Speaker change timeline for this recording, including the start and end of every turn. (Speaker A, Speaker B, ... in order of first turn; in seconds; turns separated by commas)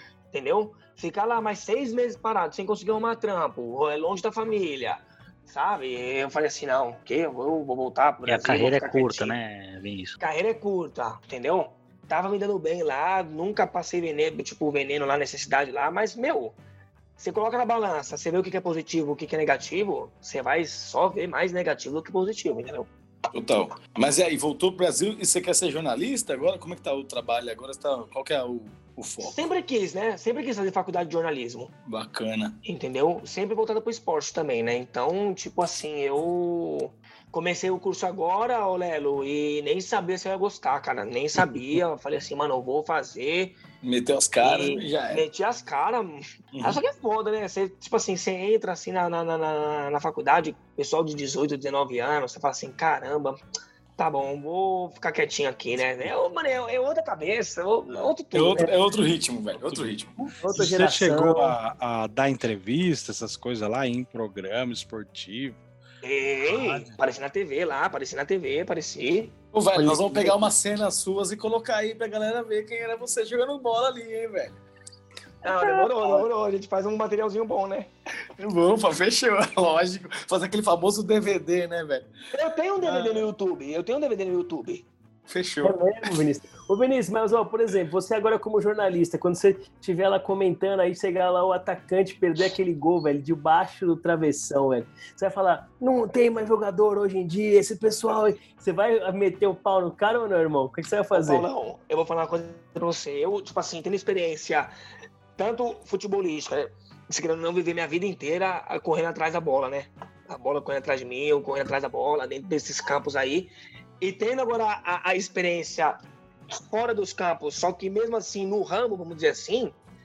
Speaker A: 0.3-9.3, Speaker B: 8.2-10.2, Speaker A: 10.2-16.6, Speaker A: 17.2-22.9, Speaker C: 23.3-29.4, Speaker A: 29.2-31.7, Speaker C: 31.9-32.6, Speaker A: 32.6-43.5, Speaker C: 43.8-45.2, Speaker A: 44.4-53.4, Speaker C: 46.5-46.8, Speaker A: 54.0-58.7, Speaker C: 58.3-60.1, Speaker D: 59.6-60.0, Speaker E: 60.2-61.6, Speaker D: 60.5-65.6, Speaker A: 66.0-69.3, Speaker D: 66.5-67.0, Speaker C: 69.5-74.5, Speaker E: 69.7-70.5, Speaker E: 75.4-76.3, Speaker A: 75.4-77.9, Speaker C: 78.4-82.1, Speaker A: 82.3-84.8, Speaker C: 82.8-83.3, Speaker C: 85.3-86.1, Speaker E: 85.6-101.5, Speaker A: 101.1-104.7, Speaker A: 105.4-119.8